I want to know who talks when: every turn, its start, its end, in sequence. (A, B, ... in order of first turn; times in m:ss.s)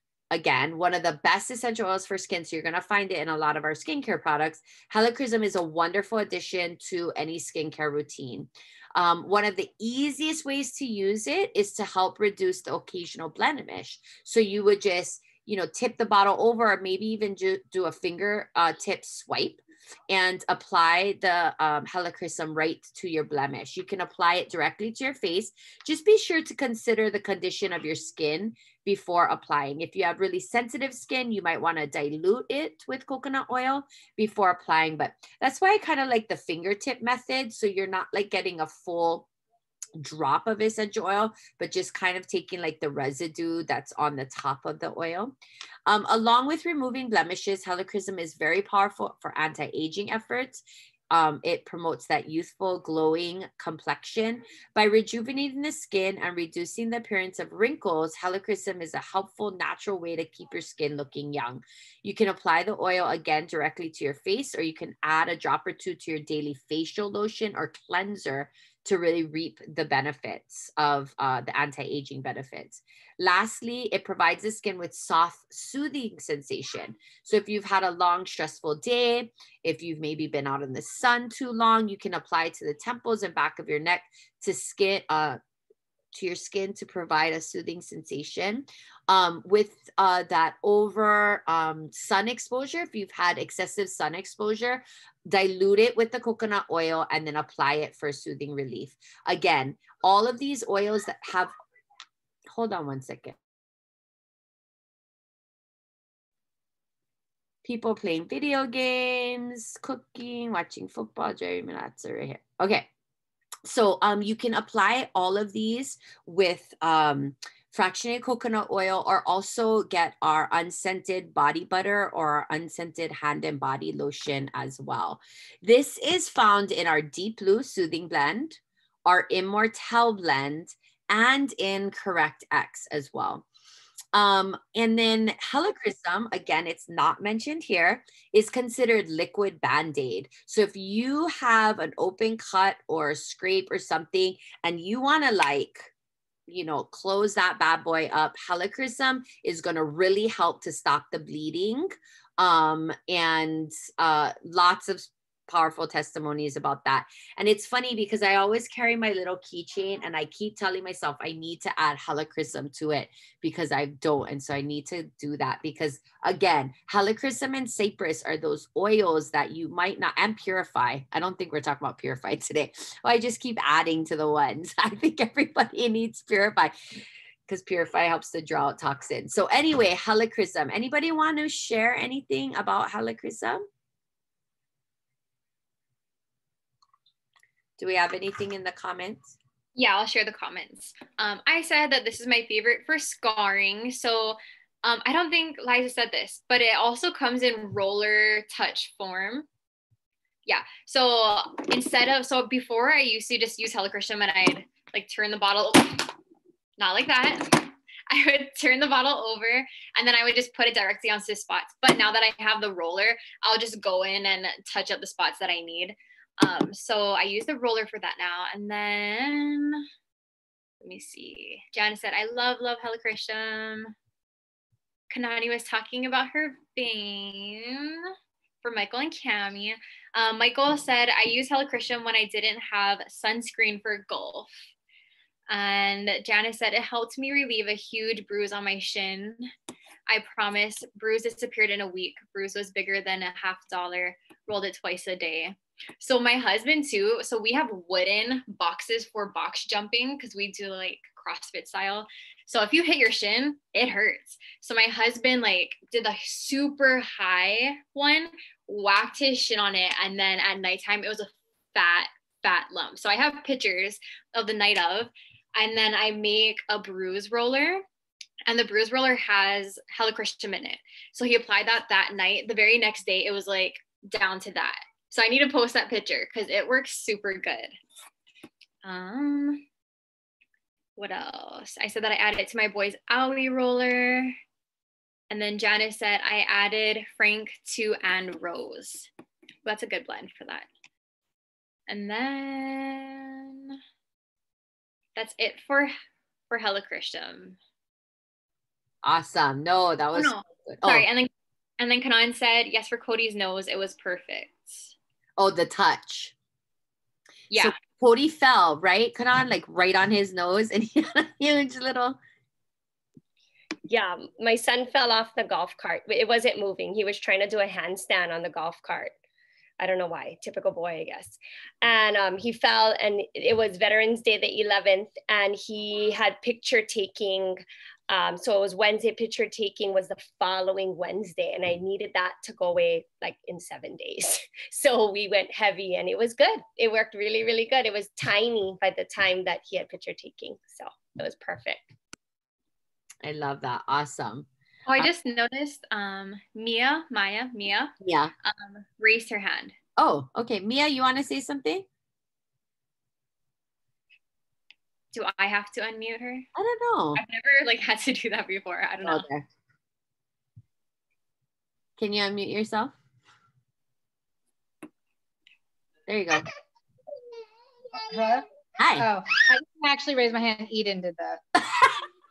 0:00.3-0:39.3 A
0:40.0-0:45.3 A
0:45.9-1:25.4 A
1:26.1-1:41.5 A
1:42.5-1:43.4 A
1:47.6-1:52.9 A
1:53.6-2:13.5 A
2:14.1-2:25.9 A
2:26.5-2:56.7 A
2:57.5-3:03.6 A
3:07.8-3:09.4 A
3:09.8-3:19.5 B
3:20.5-3:26.2 B
3:26.8-3:39.9 B
3:40.8-3:43.9 B
3:45.1-3:48.1 B
3:48.6-3:54.5 B
3:55.5-3:59.5 B
4:00.1-4:27.8 B
4:28.5-4:37.7 B
4:38.8-4:39.6 B
4:41.0-4:44.4 B
4:45.3-4:49.1 B
4:49.6-4:50.7 B
4:51.9-4:53.8 B
4:55.2-4:55.9 B
4:56.5-4:57.6 B
4:59.0-5:01.1 A
5:00.2-5:04.9 B
5:05.4-5:06.4 A
5:07.5-5:12.2 A
5:13.9-5:19.1 C
5:19.8-5:41.9 C
5:43.2-5:44.5 A
5:44.9-5:49.8 B
5:48.0-5:48.3 A
5:50.0-5:51.9 A
5:55.1-5:56.5 B
5:56.6-5:57.2 A
5:57.2-5:59.3 B
5:59.0-5:59.4 A
6:02.0-6:03.0 A
6:06.1-6:06.5 A
6:08.0-6:08.4 D
6:08.8-6:09.1 A
6:09.0-6:11.4 D
6:11.6-6:12.0 A